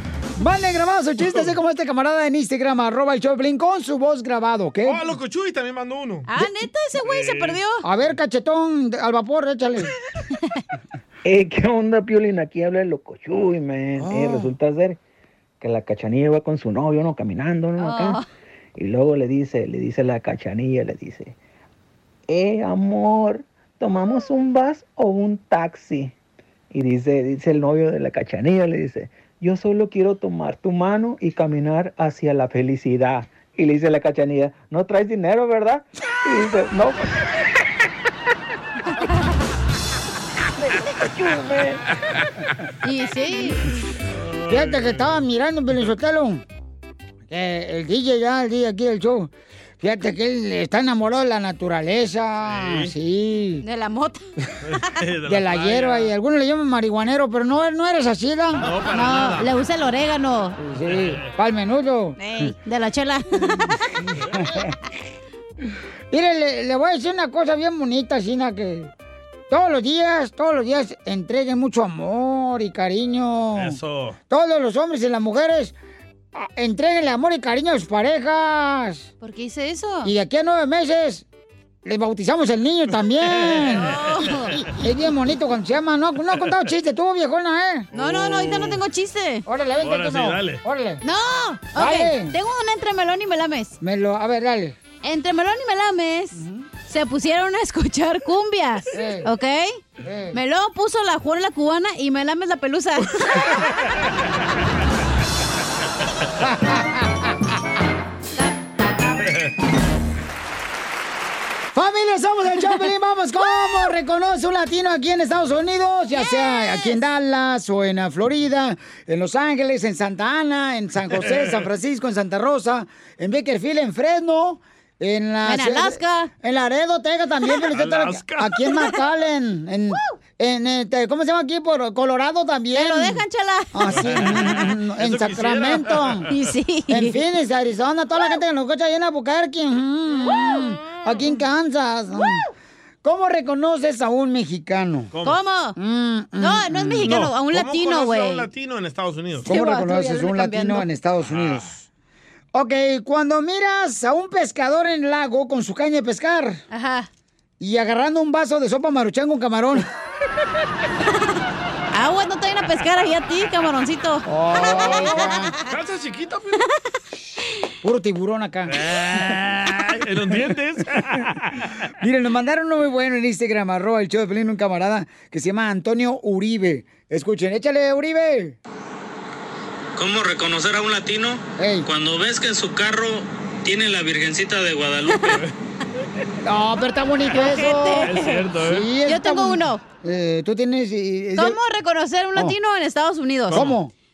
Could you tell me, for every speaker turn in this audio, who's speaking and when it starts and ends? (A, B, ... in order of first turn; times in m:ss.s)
0:00.4-0:05.1 A
0:04.8-0:06.3 B
0:06.3-0:07.8 C
0:07.0-0:07.6 B
0:07.8-0:09.9 A
0:11.2-0:15.0 D
0:14.1-0:14.4 A
0:15.6-0:18.2 D
0:17.8-0:18.2 C
0:18.8-0:21.4 D
0:22.3-0:26.1 D
0:26.7-0:37.1 D
0:40.6-0:41.8 D
0:42.8-0:43.6 C
0:44.2-0:45.2 B
0:44.5-0:46.4 A
0:47.3-0:53.6 A
0:52.4-0:52.9 B
0:53.6-0:54.2 C
0:54.6-0:56.1 B
0:55.3-0:58.7 A
0:58.6-0:59.5 B
0:58.9-1:00.6 C
1:00.6-1:02.2 A
1:00.8-1:01.2 B
1:02.2-1:03.8 C
1:04.4-1:04.7 A
1:06.1-1:08.9 A
1:09.5-1:13.8 A
1:13.5-1:14.2 B
1:14.3-1:15.7 A
1:16.4-1:19.1 A
1:19.2-1:20.1 C
1:20.0-1:21.2 A
1:21.8-1:24.0 A
1:23.2-1:24.2 B
1:23.8-1:24.5 C
1:24.6-1:27.9 A
1:27.9-1:28.8 B
1:27.9-1:29.4 C
1:29.5-1:31.0 A
1:29.8-1:30.6 B
1:31.0-1:33.8 C
1:31.8-1:32.4 A
1:33.8-1:34.8 A
1:35.0-1:39.8 C
1:38.9-1:39.3 A
1:40.0-1:40.4 A
1:40.3-1:43.6 C
1:46.4-1:46.8 A
1:51.7-2:16.3 A
1:56.1-1:57.0 C
2:05.4-2:06.3 C
2:07.7-2:08.7 B
2:12.7-2:14.5 C
2:13.9-2:16.5 B
2:16.3-2:17.2 C
2:16.9-2:22.4 A
2:20.2-2:20.7 C
2:23.0-2:25.1 A
2:25.1-2:25.4 B
2:25.2-2:25.8 C
2:25.8-2:27.1 A
2:26.4-2:28.5 C
2:27.0-2:29.5 B
2:29.4-2:30.9 C
2:29.5-2:31.8 A
2:31.3-2:31.7 B
2:32.5-2:36.6 A
2:36.7-2:37.1 C
2:37.6-2:39.9 A
2:41.9-2:45.6 C
2:44.3-2:45.5 A
2:44.7-2:45.1 B
2:45.6-2:46.6 B
2:47.8-2:48.8 A
2:48.7-2:51.7 B
2:52.0-2:58.6 A
3:00.0-3:05.2 E
3:01.6-3:01.9 A
3:05.1-3:05.4 C
3:06.4-3:08.1 A
3:07.4-3:08.5 C
3:07.8-3:08.9 B
3:08.6-3:11.6 A
3:09.0-3:09.8 C
3:11.4-3:13.6 C
3:13.5-3:13.8 B
3:13.5-3:13.9 A